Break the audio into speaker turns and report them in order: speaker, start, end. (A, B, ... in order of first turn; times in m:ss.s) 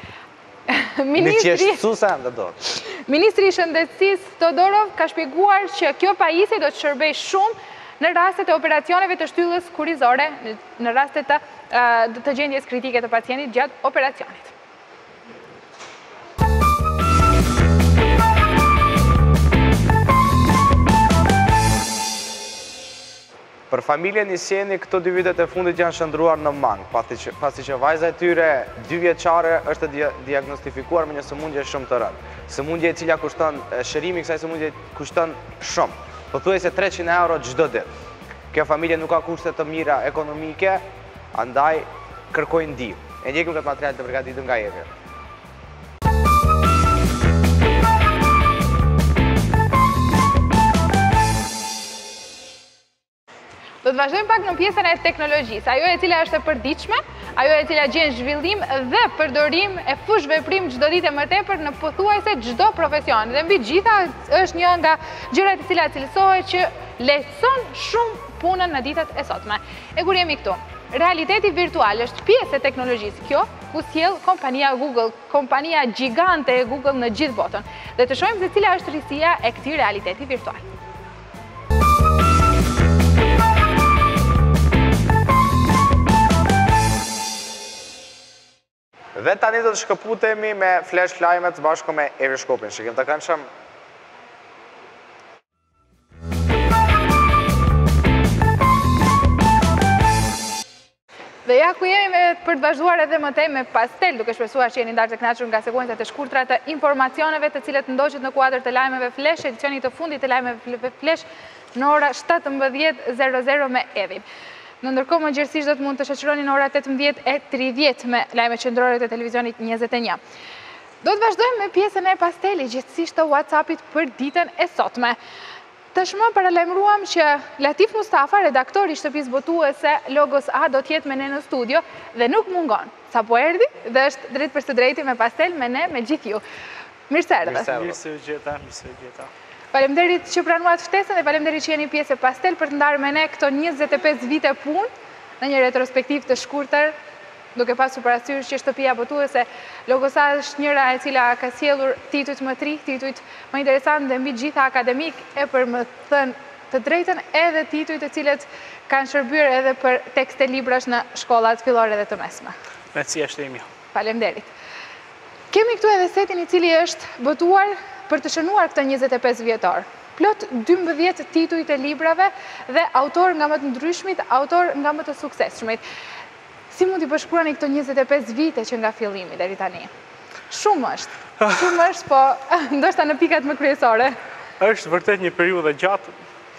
0:00.7-0:01.8 A
0:01.2-0:02.6 B
0:02.8-0:14.5 A
0:23.7-0:37.9 B
0:38.5-0:44.9 B
0:53.8-1:20.6 A
1:29.1-1:33.5 B
1:41.4-1:54.2 A
1:54.8-2:00.2 A
2:01.0-2:05.2 A
2:05.9-2:16.4 A
2:17.1-2:17.7 A
2:17.4-2:18.0 B
2:17.6-2:19.3 C
2:19.7-2:26.9 A
2:27.5-2:42.5 A
2:42.9-2:43.6 C
2:43.9-2:44.5 A
2:45.5-2:55.8 A
2:56.7-2:59.9 A
3:00.5-3:04.2 A
3:04.6-3:06.1 C